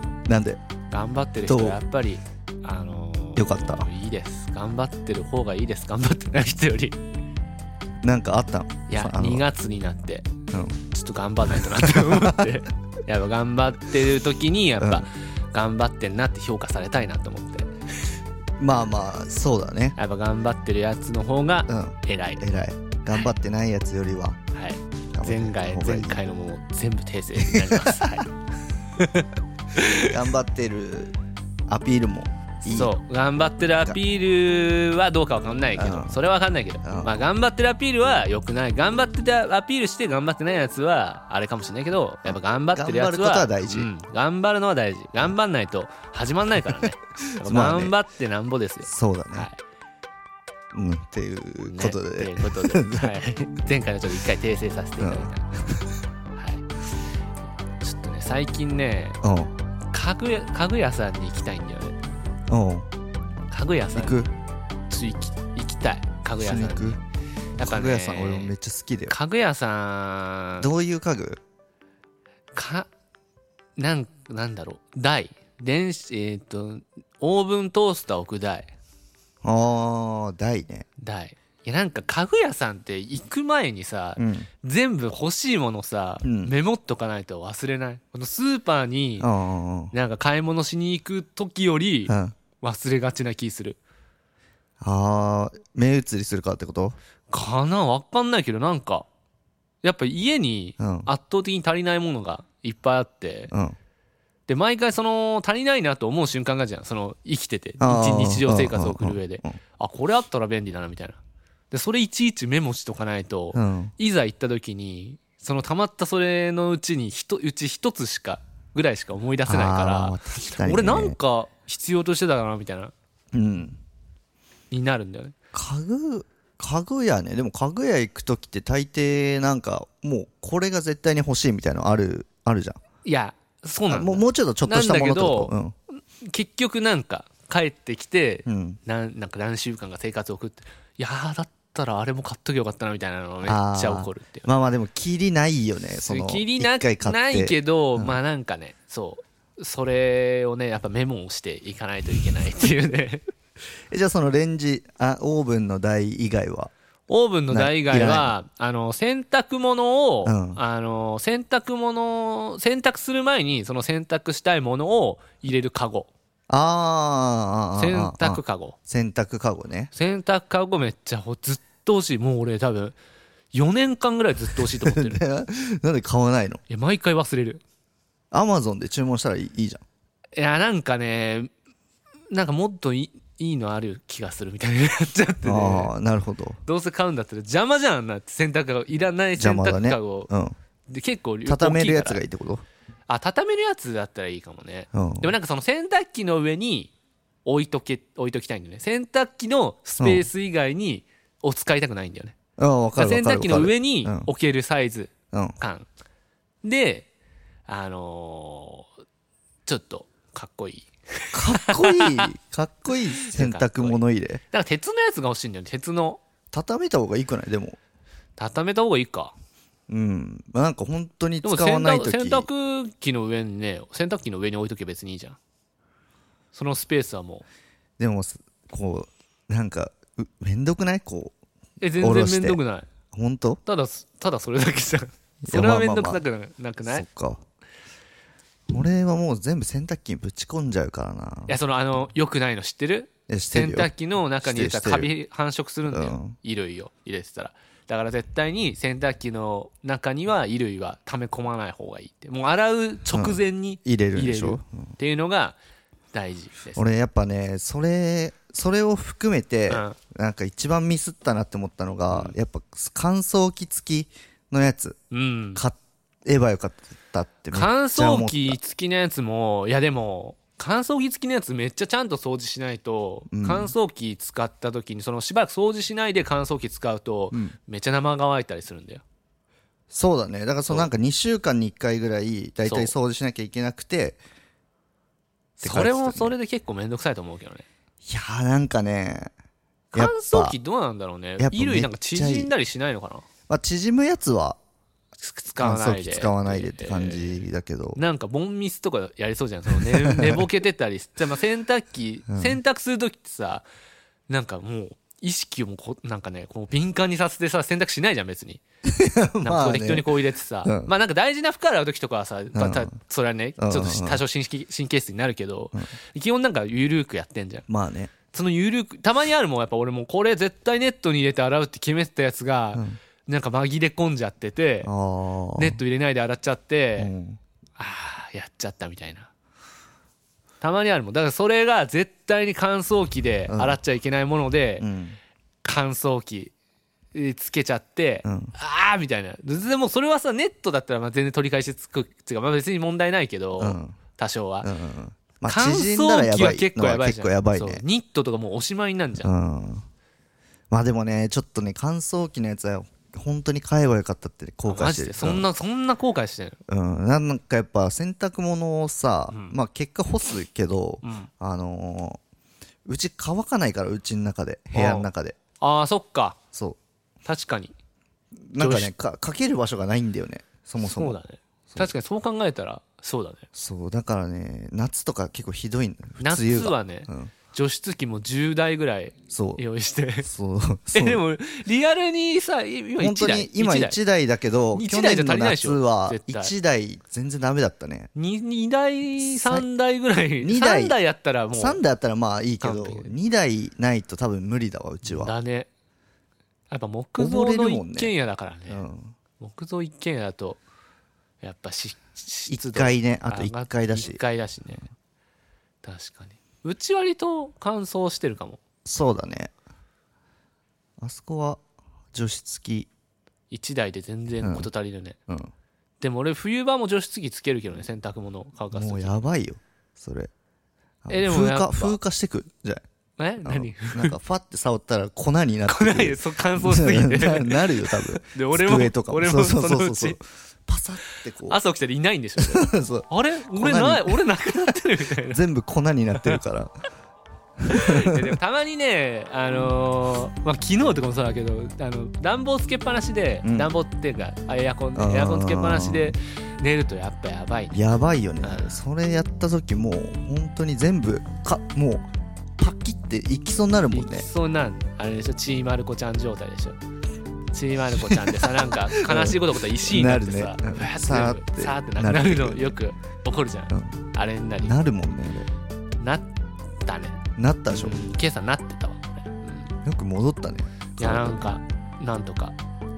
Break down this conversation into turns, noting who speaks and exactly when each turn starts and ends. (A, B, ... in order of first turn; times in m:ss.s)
0:00.3-0:00.6 A
0:00.9-0:07.0 B
0:01.5-0:01.8 A
0:03.4-0:03.9 A
0:08.0-0:09.4 A
0:08.9-0:10.3 B
0:10.9-0:17.7 B
0:11.9-0:12.5 A
0:14.8-0:15.1 A
0:18.6-0:20.0 A
0:20.0-0:22.4 B
0:21.7-0:24.4 A
0:24.5-0:28.3 B
0:25.1-0:26.2 A
0:27.6-0:28.1 A
0:29.0-0:30.1 B
0:30.0-0:31.2 A
0:31.7-0:32.9 A
0:32.7-0:49.6 B
0:35.8-0:36.2 A
0:36.8-0:37.2 A
0:42.3-0:43.9 A
0:47.4-0:48.0 A
0:48.8-0:49.5 A
0:50.7-0:53.1 A
0:51.7-0:55.6 B
0:55.0-0:55.8 A
0:56.3-0:56.7 B
0:57.8-0:59.2 B
0:59.2-0:59.5 A
0:59.9-1:02.0 B
1:02.5-1:02.9 A
1:03.5-1:04.3 B
1:03.9-1:04.3 A
1:04.9-1:07.0 B
1:06.4-1:07.0 A
1:07.6-1:08.5 B
1:07.6-1:09.2 A
1:09.1-1:10.7 B
1:10.6-1:11.4 A
1:12.5-1:12.9 B
1:13.8-1:18.7 B
1:19.4-1:20.9 A
1:21.0-1:29.3 B
1:24.2-1:24.5 A
1:26.2-1:26.5 A
1:29.2-1:29.9 A
1:29.9-1:33.8 B
1:32.1-1:32.4 A
1:34.8-1:37.0 A
1:37.3-1:39.1 B
1:39.8-1:43.5 B
1:40.8-1:41.1 A
1:43.5-1:43.8 A
1:44.5-1:51.2 B
1:47.8-1:49.5 A
1:51.7-2:02.9 B
1:53.5-1:53.9 A
1:59.5-2:01.2 A
2:03.3-2:03.8 A
2:04.7-2:05.3 B
2:05.5-2:12.8 A
2:13.0-2:24.5 B
2:13.9-2:15.8 A
2:18.5-2:18.8 A
2:23.4-2:28.2 A
2:26.0-2:33.2 B
2:33.9-2:36.7 A
2:37.1-2:46.1 B
2:37.5-2:38.3 A
2:40.2-2:40.6 A
2:46.5-2:49.9 A
2:47.8-2:48.8 B
2:49.9-2:53.0 B
2:53.5-2:55.2 B
2:54.6-2:56.6 A
2:56.7-2:57.6 B
2:58.3-2:59.8 A
3:00.4-3:01.5 B
3:02.3-3:05.9 B
3:05.4-3:06.6 A
3:06.6-3:10.3 B
3:09.4-3:10.6 A
3:10.9-3:12.2 B
3:11.5-3:12.6 A
3:13.1-3:16.9 B
3:14.9-3:15.4 A
3:17.4-3:22.4 B
3:20.0-3:20.3 A
3:22.6-3:24.3 A
3:23.0-3:25.9 B
3:26.6-3:27.1 B
3:27.7-3:28.9 B
3:29.7-3:32.3 B
3:31.3-3:34.4 A
3:33.2-3:36.2 B
3:36.5-3:37.8 A
3:38.4-3:39.3 B
3:39.9-3:42.5 A
3:41.4-3:45.4 B
3:46.5-3:47.4 B
3:48.0-3:51.4 A
3:51.8-3:52.9 B
3:52.0-3:52.6 A
3:53.1-3:53.6 A
3:53.6-3:57.0 B
3:55.5-3:56.2 A
3:56.8-3:57.4 A
3:58.7-4:01.6 A
4:01.5-4:15.6 B
4:03.3-4:03.9 A
4:04.4-4:05.1 A
4:05.9-4:06.4 A
4:13.1-4:14.9 A
4:16.1-4:16.9 B
4:16.8-4:25.0 A
4:19.7-4:20.0 B
4:22.1-4:22.4 B
4:25.1-4:25.6 B
4:25.6-4:28.6 A
4:27.5-4:39.0 B
4:33.3-4:33.7 A
4:39.9-4:44.2 A
4:42.7-4:43.0 B
4:45.6-4:47.7 B
4:45.6-4:46.3 A
4:48.0-4:49.3 A
4:49.9-4:53.3 B
4:50.0-4:50.6 A
4:51.4-4:52.5 A
4:53.5-4:54.6 A
4:55.2-4:57.4 B
4:55.6-4:58.0 A
4:58.0-5:03.7 B
4:59.7-5:00.4 A
5:02.3-5:02.6 A
5:04.3-5:08.6 B
5:08.9-5:10.9 A
5:09.4-5:17.7 B
5:12.6-5:12.9 A
5:13.6-5:14.2 A
5:17.7-5:18.1 A
5:18.3-5:24.9 B
5:24.8-5:25.8 A
5:25.6-5:27.1 B
5:27.0-5:27.4 A
5:27.8-5:29.3 B
5:30.6-5:34.9 B
5:33.5-5:33.8 A
5:34.8-5:35.2 A
5:35.6-5:36.5 B
5:37.1-5:44.7 B
5:38.2-5:38.5 A
5:43.6-5:44.0 A
5:44.6-5:47.8 A
5:45.4-5:49.3 B
5:49.2-5:49.9 A
5:50.7-5:55.4 A
5:54.7-5:56.6 B
5:56.7-6:02.2 A
5:59.3-5:59.6 B
6:01.0-6:01.3 B
6:02.9-6:05.4 A
6:04.7-6:05.1 B
6:05.6-6:06.4 B
6:07.2-6:07.8 B
6:08.5-6:11.2 A
6:08.6-6:09.0 B
6:10.8-6:13.4 B
6:13.6-6:17.3 A
6:16.2-6:20.3 B
6:19.3-6:19.6 A
6:20.2-6:21.2 A
6:20.9-6:24.0 B
6:23.0-6:28.1 A
6:24.7-6:26.5 B
6:28.2-6:31.8 B
6:29.2-6:29.7 A
6:30.4-6:31.0 A
6:31.5-6:35.3 A
6:32.6-6:33.1 B
6:35.0-6:35.7 B
6:36.7-6:38.8 B
6:37.2-6:38.1 A
6:38.7-6:39.2 A
6:39.4-6:40.6 B
6:41.4-6:44.9 B
6:42.5-6:44.2 A
6:45.8-6:48.6 B
6:48.8-6:49.5 A
6:51.0-6:51.6 A
6:52.1-6:52.9 A
6:53.5-6:55.2 B
6:54.4-6:54.7 A
6:56.0-6:59.2 B
6:58.7-7:00.3 A
7:01.0-7:02.8 A
7:01.1-7:02.0 B
7:03.2-7:04.2 B
7:03.4-7:11.6 A
7:05.7-7:10.2 B
7:11.4-7:15.4 B
7:12.4-7:14.2 A
7:15.3-7:16.7 A
7:16.1-7:16.4 B
7:17.6-7:18.4 A
7:17.7-7:28.8 B
7:23.4-7:23.7 A
7:25.0-7:26.2 A
7:27.7-7:32.1 A
7:32.6-7:34.3 A
7:33.9-7:36.8 B
7:37.5-7:44.8 B
7:38.1-7:42.7 A
7:43.7-7:44.0 A
7:44.6-7:45.5 A
7:46.0-7:46.3 B
7:46.8-7:47.2 B
7:47.4-7:48.0 A
7:47.7-7:49.8 B
7:49.8-7:51.5 A
7:50.9-7:52.6 B